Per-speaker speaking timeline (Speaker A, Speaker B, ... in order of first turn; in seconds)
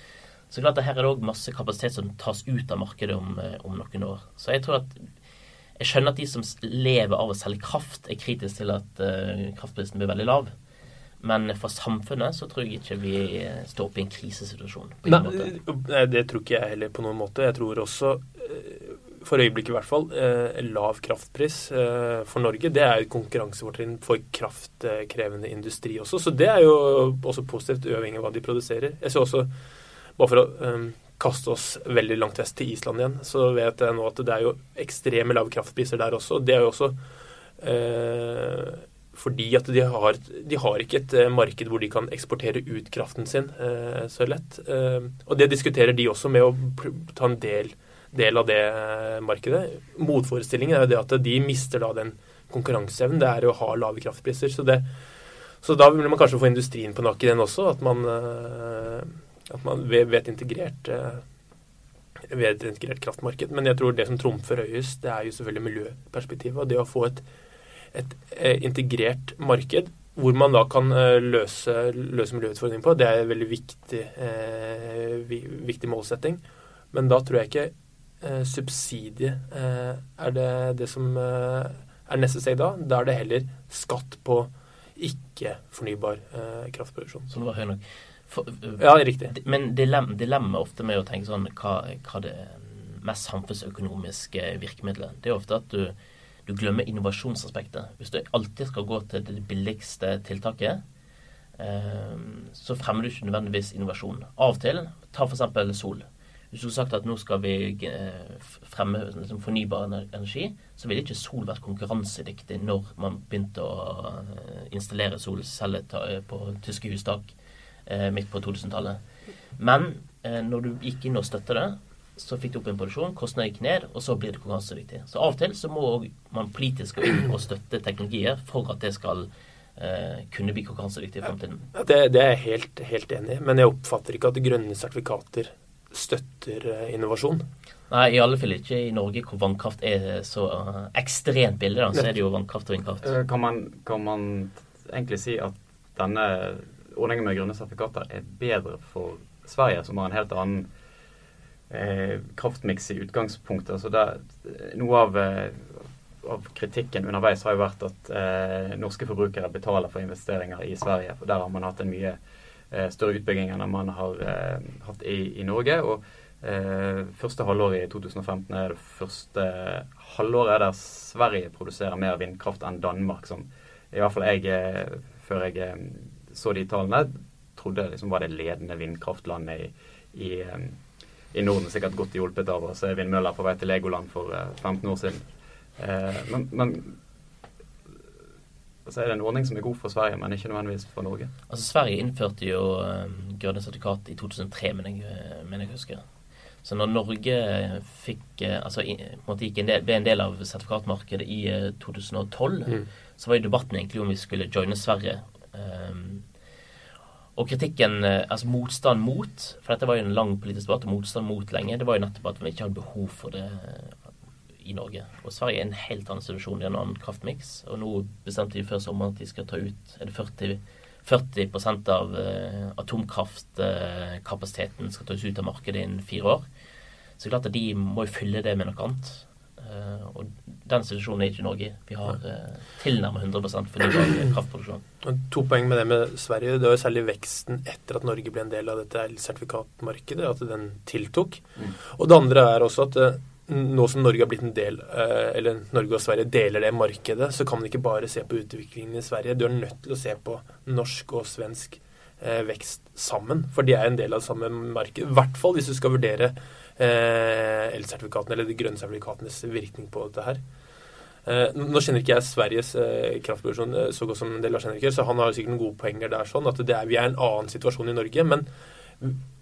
Speaker A: 0.5-5.1, 5.8-10.5, 11.2-15.5, 87.3-96.0, 96.5-100.8, 101.6-117.3, 117.9-119.0, 119.6-131.7, 137.9-143.1, 191.5-196.0, 196.6-206.3, 207.4-214.1, 214.6-226.4, 227.2-234.8
Speaker B: 15.1-29.5, 30.2-37.0, 37.6-54.9, 55.6-61.2, 62.3-67.2, 67.9-76.4, 76.9-87.3, 88.8-89.3, 131.7-137.5, 235.0-260.4, 261.3-268.5
Speaker C: 143.0-150.7, 151.7-162.2, 162.7-180.8, 181.3-185.2, 185.8-187.0, 188.9-191.3